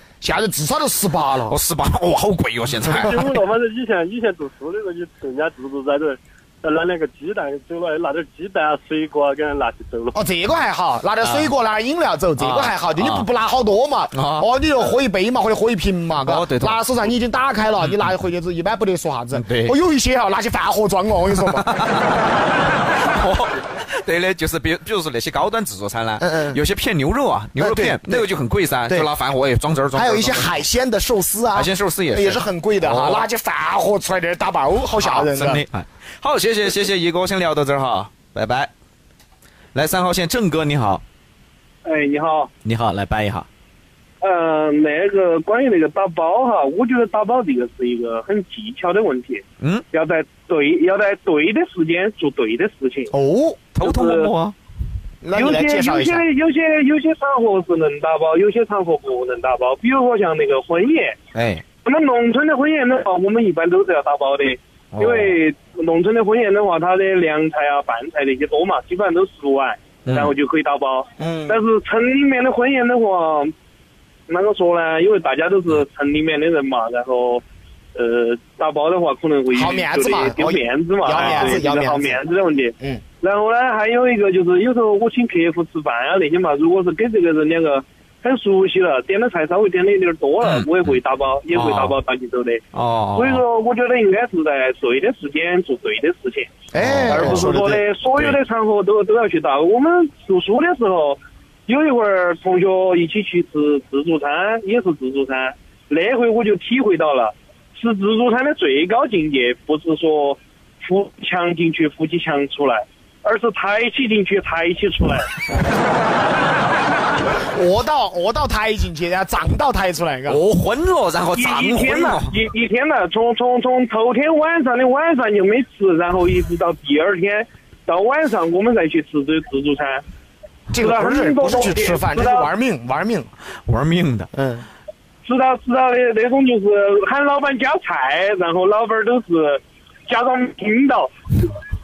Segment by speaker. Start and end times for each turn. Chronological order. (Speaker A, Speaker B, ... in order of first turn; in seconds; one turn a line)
Speaker A: 0.2-1.6
Speaker B: 1.5-3.3
Speaker C: 3.0-10.2
Speaker A: 10.1-21.7
Speaker B: 11.2-11.5
Speaker B: 12.4-13.3
Speaker B: 14.1-14.5
Speaker B: 16.2-16.8
Speaker B: 17.8-18.1
Speaker B: 19.3-19.8
Speaker B: 21.4-22.3
Speaker B: 23.1-30.5
Speaker A: 26.2-26.6
Speaker A: 27.6-28.3
Speaker A: 29.9-35.6
Speaker B: 31.5-33.2
Speaker B: 35.0-38.7
Speaker B: 39.7-41.0
Speaker D: 41.8-42.5
Speaker B: 42.6-43.5
Speaker D: 44.2-53.1
Speaker A: 53.1-53.6
Speaker B: 53.8-54.5
Speaker D: 53.8-54.3
Speaker A: 55.2-56.2
Speaker D: 55.3-61.2
Speaker B: 61.3-61.6
Speaker D: 61.8-73.5
Speaker B: 64.9-65.4
Speaker B: 70.0-70.3
Speaker A: 71.2-71.6
Speaker D: 74.3-77.4
Speaker D: 77.9-92.6
Speaker A: 79.5-82.2
Speaker B: 81.2-81.5
Speaker B: 90.4-91.0
Speaker B: 91.5-92.0
Speaker B: 92.7-93.4
Speaker D: 93.2-96.5
Speaker A: 96.7-97.8
Speaker B: 96.8-97.6
Speaker D: 97.1-115.3
Speaker A: 117.5-120.4
Speaker B: 120.3-122.3
Speaker D: 121.4-130.0
Speaker A: 130.7-133.3
Speaker D: 130.7-132.5
Speaker B: 133.7-134.3
Speaker A: 134.3-134.7
Speaker D: 135.2-141.1